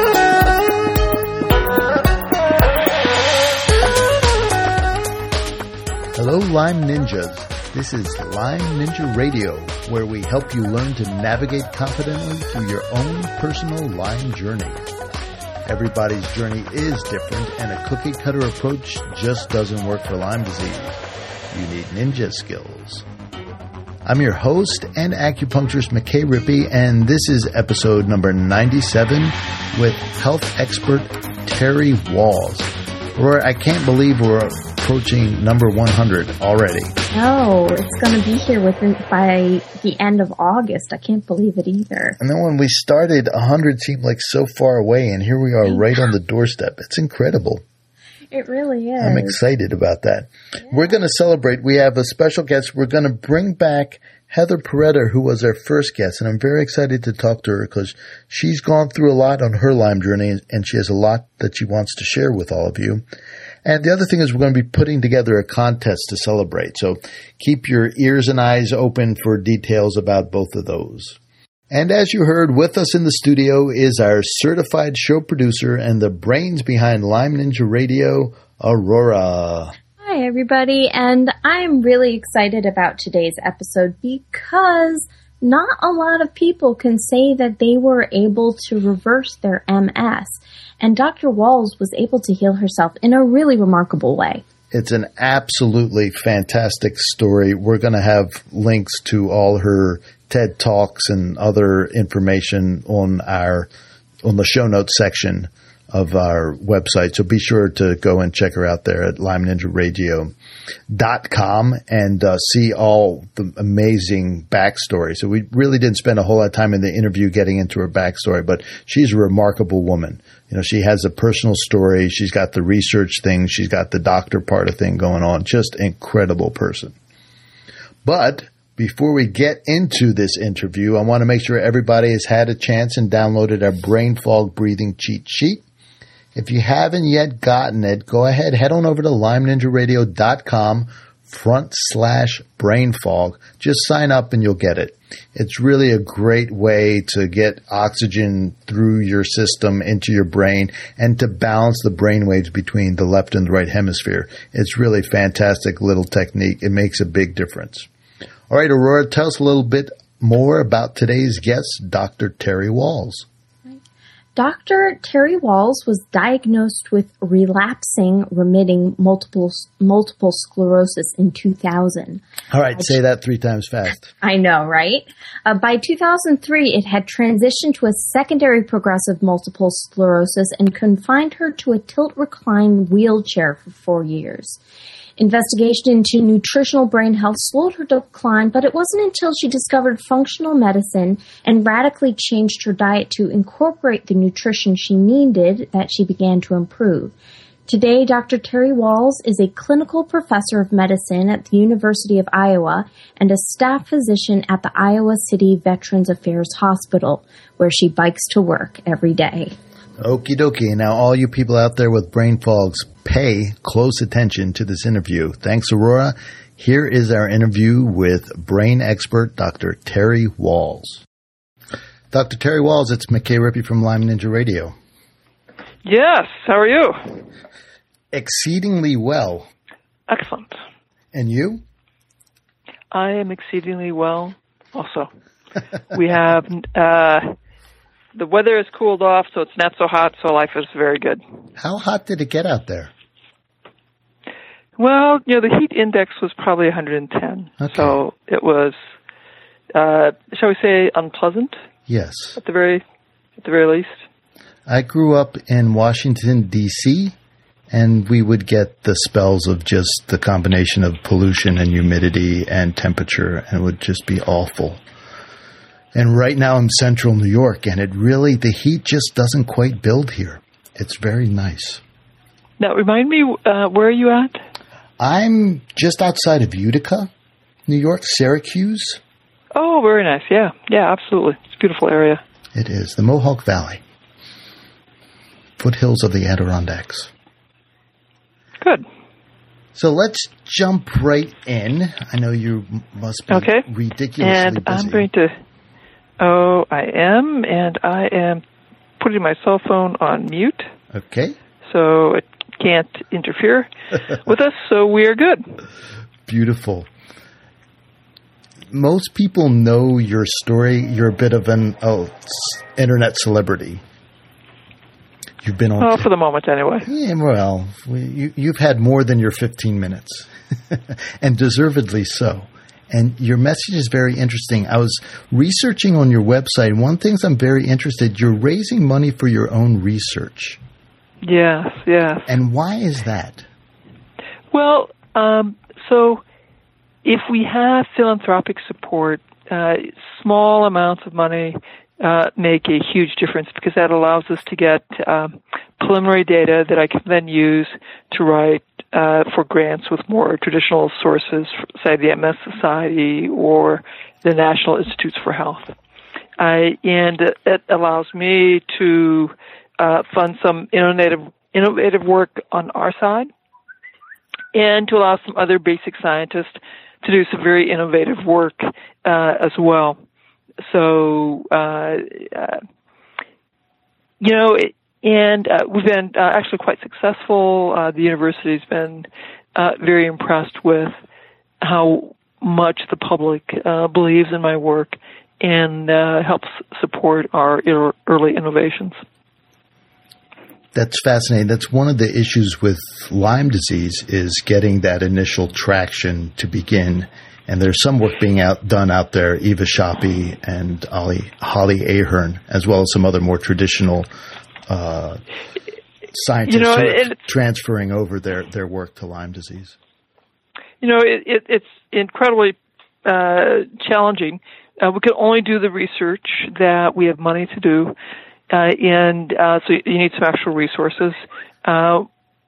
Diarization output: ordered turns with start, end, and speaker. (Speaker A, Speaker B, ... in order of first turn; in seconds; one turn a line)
Speaker A: 6.2-14.9
Speaker A: 15.7-23.1
Speaker A: 24.1-36.9
Speaker B: 37.1-42.2
Speaker A: 42.2-47.6
Speaker B: 48.3-49.4
Speaker A: 49.0-63.0
Speaker A: 63.6-71.2
Speaker A: 71.7-79.8
Speaker B: 80.0-94.4
Speaker A: 94.7-103.7
Speaker A: 104.2-110.3
Speaker A: 110.9-127.0
Speaker A: 128.0-135.6
Speaker A: 136.3-157.9
Speaker A: 158.5-163.3
Speaker B: 164.3-172.2
Speaker A: 172.5-174.1
Speaker B: 174.2-184.6
Speaker B: 185.2-197.1
Speaker B: 197.7-209.6
Speaker A: 210.0-221.0
Speaker A: 222.1-224.8
Speaker C: 225.8-227.0
Speaker A: 228.1-229.5
Speaker C: 230.1-230.5
Speaker A: 231.1-231.6
Speaker C: 232.9-235.1
Speaker C: 235.9-237.3
Speaker C: 238.2-241.2
Speaker A: 241.6-242.9
Speaker C: 244.8-248.8
Speaker A: 247.6-248.0
Speaker C: 249.7-251.6
Speaker A: 251.9-252.4
Speaker C: 252.4-252.8
Speaker C: 253.4-254.0
Speaker A: 254.7-257.2
Speaker A: 257.7-264.8
Speaker A: 265.9-271.8
Speaker C: 272.6-274.4
Speaker A: 275.0-277.1
Speaker A: 277.7-279.0
Speaker C: 279.6-282.2
Speaker A: 282.5-283.8
Speaker A: 285.6-287.1
Speaker A: 289.7-295.1
Speaker C: 293.3-293.7
Speaker C: 294.2-295.3
Speaker C: 296.2-298.4
Speaker C: 299.0-300.7
Speaker A: 300.9-301.4
Speaker C: 301.6-305.6
Speaker A: 306.3-306.9
Speaker A: 308.7-313.8
Speaker A: 315.4-316.1
Speaker C: 315.8-316.9
Speaker A: 316.8-330.6
Speaker C: 331.2-332.3
Speaker A: 332.3-333.5
Speaker C: 334.5-336.2
Speaker C: 337.0-355.8
Speaker C: 356.4-363.3
Speaker C: 364.5-370.0
Speaker C: 370.6-372.6
Speaker C: 374.2-380.9
Speaker C: 381.6-389.0
Speaker A: 390.7-404.1
Speaker A: 404.7-405.2
Speaker A: 406.1-409.8
Speaker C: 406.5-407.2
Speaker C: 410.8-417.9
Speaker C: 418.5-422.1